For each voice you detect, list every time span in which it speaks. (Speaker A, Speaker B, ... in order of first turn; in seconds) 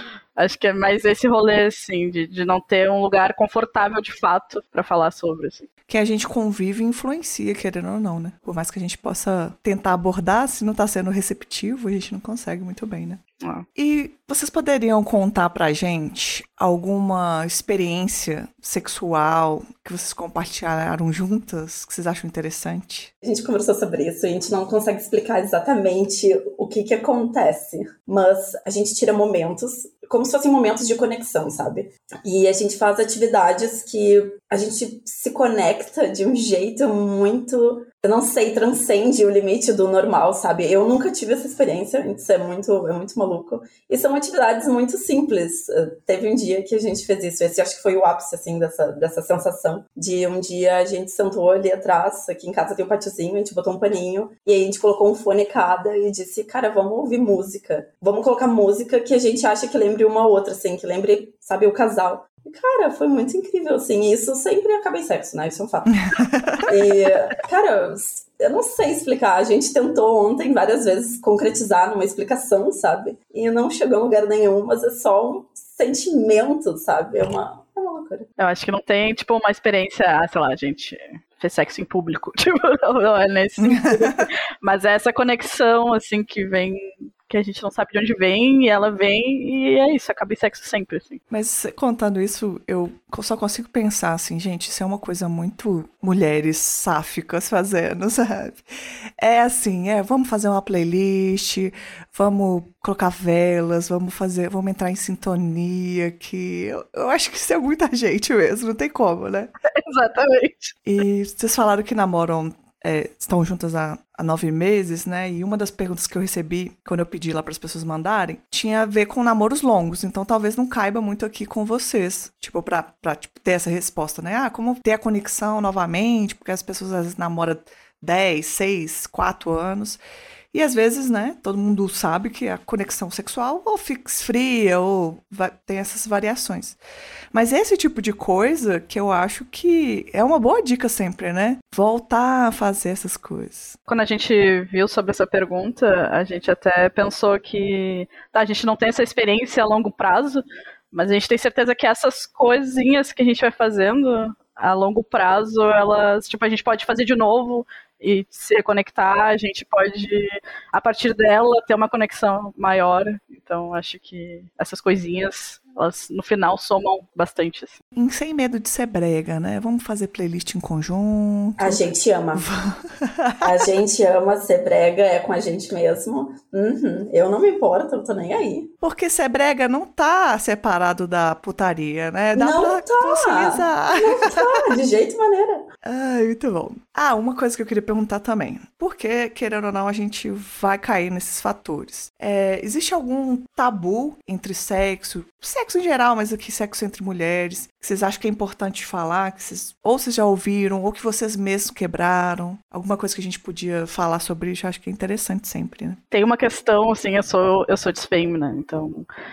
Speaker A: 0.4-5.7, 78.4-91.2, 109.7-110.8, 143.9-167.8, 206.1-209.1
Speaker B: 5.9-13.2, 13.8-23.1, 66.1-66.6, 83.6-84.2, 91.3-109.5, 110.9-130.0, 130.5-136.8, 137.3-143.8, 167.9-173.6, 178.8-184.8, 185.8-206.0
Speaker C: 23.2-66.0, 66.6-78.3, 171.6-172.5, 173.4-178.7, 182.3-185.7